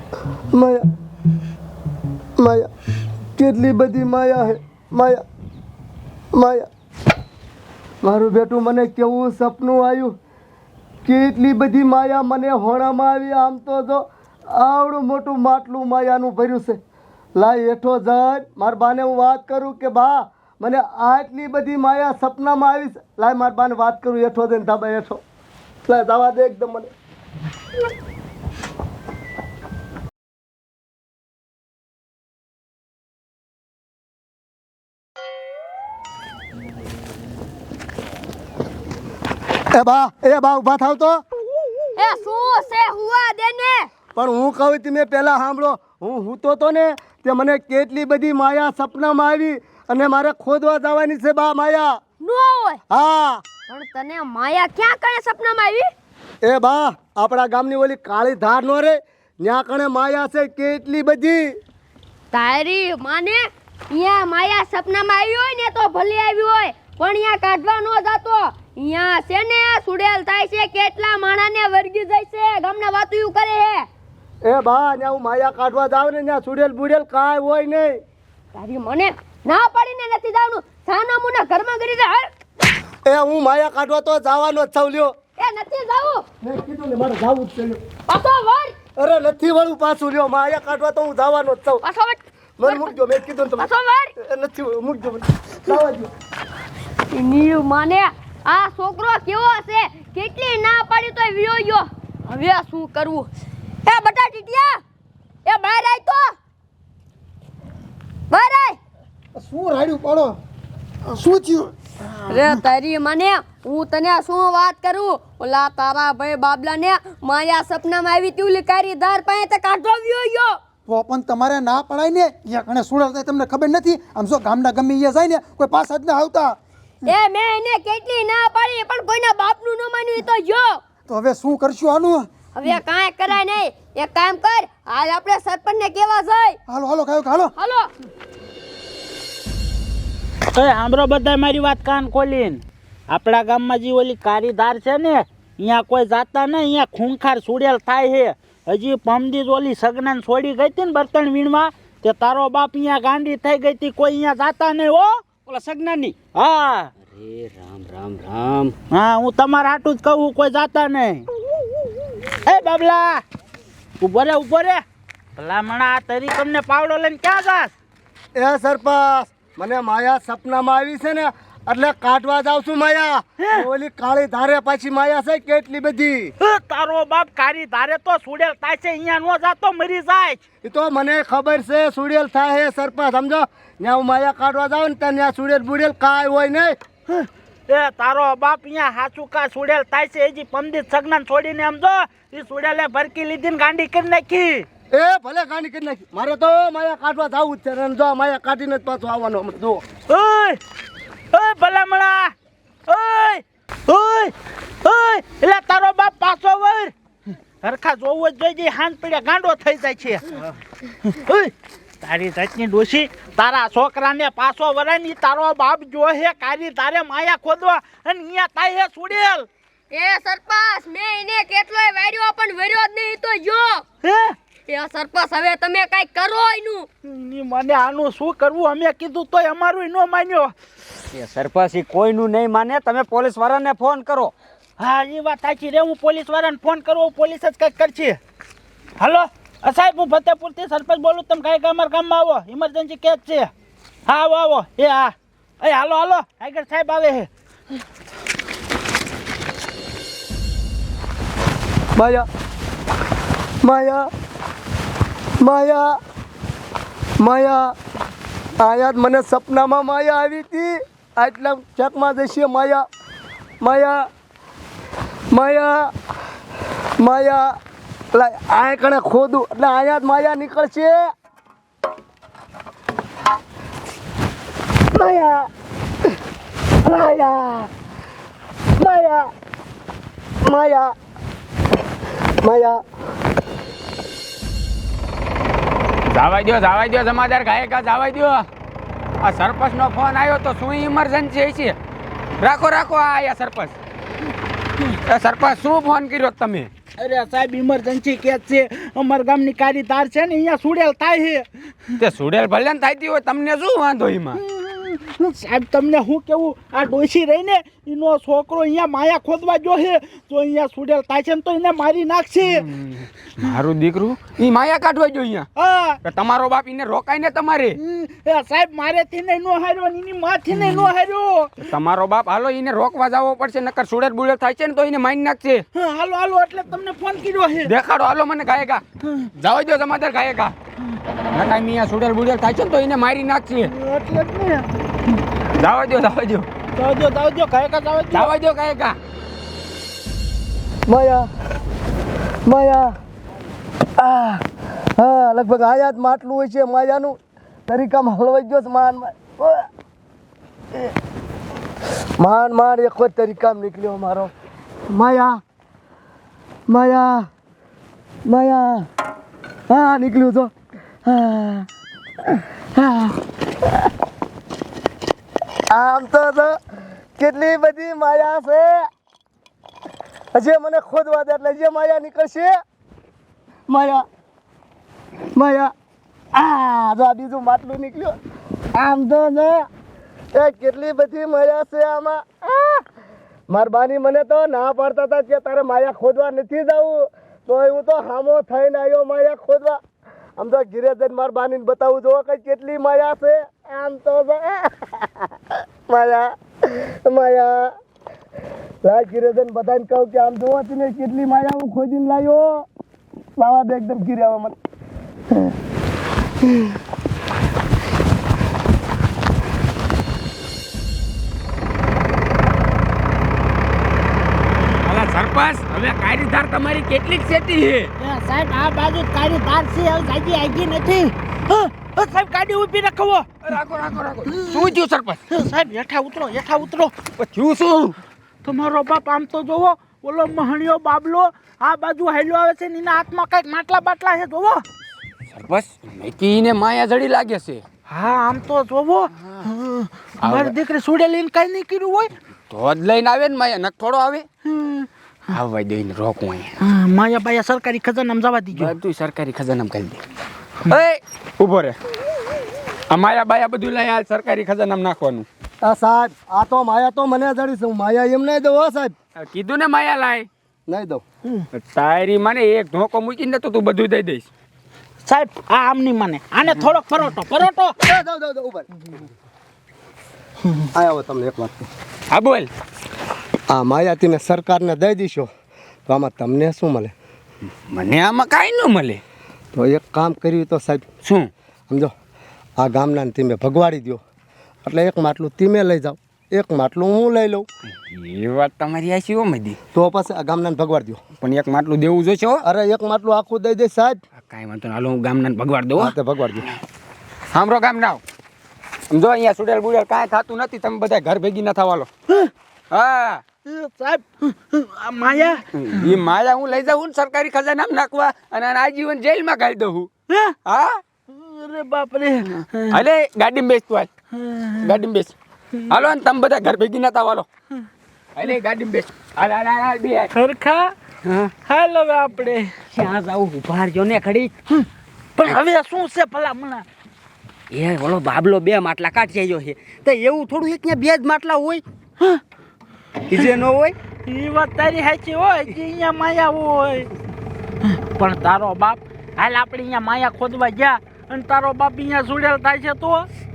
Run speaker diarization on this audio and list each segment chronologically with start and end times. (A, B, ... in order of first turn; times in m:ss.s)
0:00.5-0:00.8 A
0:02.4-0:02.7 A
0:03.4-0:05.2 A
0:06.3-0:06.7 A
0:08.0-0:10.1 A
0:11.0-0:16.8 A
0:17.4-0:25.2 A
0:25.9-0:26.9 A
0:39.7-0:41.2 A
0:42.0-0:43.9 B
0:44.1-0:52.0 A
0:52.2-0:52.8 B
0:52.9-0:53.4 A
0:53.7-0:55.9 B
0:56.4-1:01.5 A
1:02.3-1:13.9 B
1:14.4-1:18.0 A
1:18.5-1:22.3 B
1:23.0-1:25.1 A
1:25.4-1:26.2 B
1:26.4-1:27.8 A
1:28.1-1:28.8 B
1:29.0-1:31.8 A
1:31.8-1:33.0 B
1:32.6-1:36.1 A
1:33.6-1:34.1 B
1:37.1-1:43.3 B
1:43.8-1:44.8 B
1:45.4-1:46.3 B
1:48.3-1:48.8 B
1:49.4-1:50.4 C
1:51.0-1:52.5 C
1:52.2-2:00.6 B
2:00.9-2:06.6 C
2:07.0-2:10.8 B
2:11.1-2:12.3 C
2:12.5-2:16.6 B
2:16.7-2:17.5 C
2:17.6-2:17.9 B
2:20.5-2:35.2 D
2:35.4-2:36.2 E
2:36.3-2:36.9 D
2:37.0-2:38.7 E
2:38.9-2:41.3 D
2:42.4-2:43.2 D
2:44.0-2:44.8 D
2:45.4-2:47.7 D
2:48.4-2:56.3 A
2:56.4-3:00.4 D
3:00.6-3:06.7 A
3:07.1-3:14.6 D
3:14.9-3:19.8 A
3:20.1-3:20.6 D
3:21.3-3:22.3 D
3:22.9-3:26.9 D
3:27.6-3:30.5 D
3:31.0-3:39.5 D
3:39.9-3:43.8 B
3:44.0-3:44.4 D
3:44.7-3:46.9 B
3:47.0-3:50.5 D
3:51.1-3:54.3 E
3:54.8-3:58.2 D
3:59.0-4:03.5 D
4:04.0-4:07.3 D
4:12.0-4:12.2 A
4:13.6-4:14.1 A
4:15.4-4:16.0 A
4:17.2-4:17.7 A
4:18.6-4:22.8 A
4:23.6-4:24.0 A
4:25.3-4:25.9 A
4:27.0-4:27.5 A
4:28.1-4:31.0 A
4:34.9-4:35.5 A
4:36.8-4:37.7 A
4:38.8-4:39.3 A
4:40.4-4:40.9 A
4:42.4-4:42.8 A
4:46.1-4:48.5 F
4:49.2-4:51.8 F
4:52.4-4:53.7 F
4:55.0-4:56.7 F
4:57.0-5:01.5 D
5:02.0-5:04.4 F
5:04.4-5:12.6 D
5:12.5-5:15.5 F
5:15.6-5:16.0 D
5:16.0-5:17.8 F
5:17.8-5:21.6 D
5:20.5-5:20.8 F
5:21.6-5:25.6 F
5:25.7-5:27.7 D
5:27.6-5:28.8 F
5:29.4-5:30.5 F
5:31.3-5:33.7 F
5:33.6-5:34.6 D
5:35.5-5:36.5 F
5:36.7-5:38.3 D
5:38.1-5:39.0 F
5:40.9-5:41.3 A
5:42.4-5:42.9 A
5:44.0-5:44.4 A
5:45.0-5:49.7 A
5:52.2-5:54.3 A
5:54.9-5:55.4 A
5:56.7-5:57.3 A
5:58.2-5:58.9 A
5:59.7-6:00.5 A
6:01.0-6:01.7 A
6:02.7-6:03.2 A
6:05.7-6:06.6 A
6:07.2-6:08.8 A
6:10.3-6:12.6 A
6:13.7-6:14.0 A
6:15.3-6:15.7 A
6:16.3-6:18.2 A
6:18.7-6:19.7 A
6:20.3-6:22.8 A
6:23.5-6:29.8 A
6:30.4-6:35.3 A
6:35.9-6:37.7 A
6:38.8-6:42.6 A
6:43.4-6:44.6 A
6:54.8-6:57.9 F
6:58.0-7:03.3 D
7:03.4-7:05.2 F
7:05.3-7:06.9 D
7:07.2-7:08.0 F
7:08.4-7:14.6 D
7:15.3-7:17.6 F
7:17.9-7:22.1 D
7:20.2-7:20.5 F
7:22.5-7:24.3 F
7:24.5-7:24.8 D
7:25.3-7:26.5 F
7:26.6-7:28.7 D
7:28.5-7:30.0 F
7:30.6-7:31.8 F
7:32.9-7:35.3 F
7:35.6-7:38.9 A
7:39.2-7:40.3 F
7:40.7-7:41.0 A
7:41.5-7:44.3 F
7:45.0-7:47.7 D
7:47.8-7:48.7 A
7:50.7-7:51.7 A
7:52.1-7:52.5 F
7:53.5-7:55.3 A
7:55.9-7:56.9 A
7:57.7-7:59.0 F
7:59.5-8:00.8 A
8:01.0-8:01.3 F
8:02.6-8:04.0 A
8:04.6-8:07.4 A
8:07.8-8:09.6 F
8:09.7-8:11.0 A
8:11.2-8:12.4 F
8:12.4-8:14.0 A
8:14.2-8:16.6 F
8:15.8-8:16.5 A
8:17.3-8:18.0 F
8:18.9-8:21.9 F
8:22.7-8:23.2 F
8:23.4-8:25.4 D
8:25.5-8:29.9 F
8:30.1-8:30.3 D
8:30.4-8:30.8 F
8:31.1-8:32.7 D
8:32.5-8:33.9 F
8:34.6-8:35.1 F
8:35.7-8:37.3 F
8:38.2-8:40.1 F
8:40.1-8:40.7 D
8:41.0-8:41.3 E
8:41.4-8:42.5 D
8:42.7-8:44.3 E
8:45.2-8:46.6 D
8:47.5-8:51.6 E
8:53.1-8:53.8 E
8:54.0-8:56.9 D
8:57.6-9:03.1 D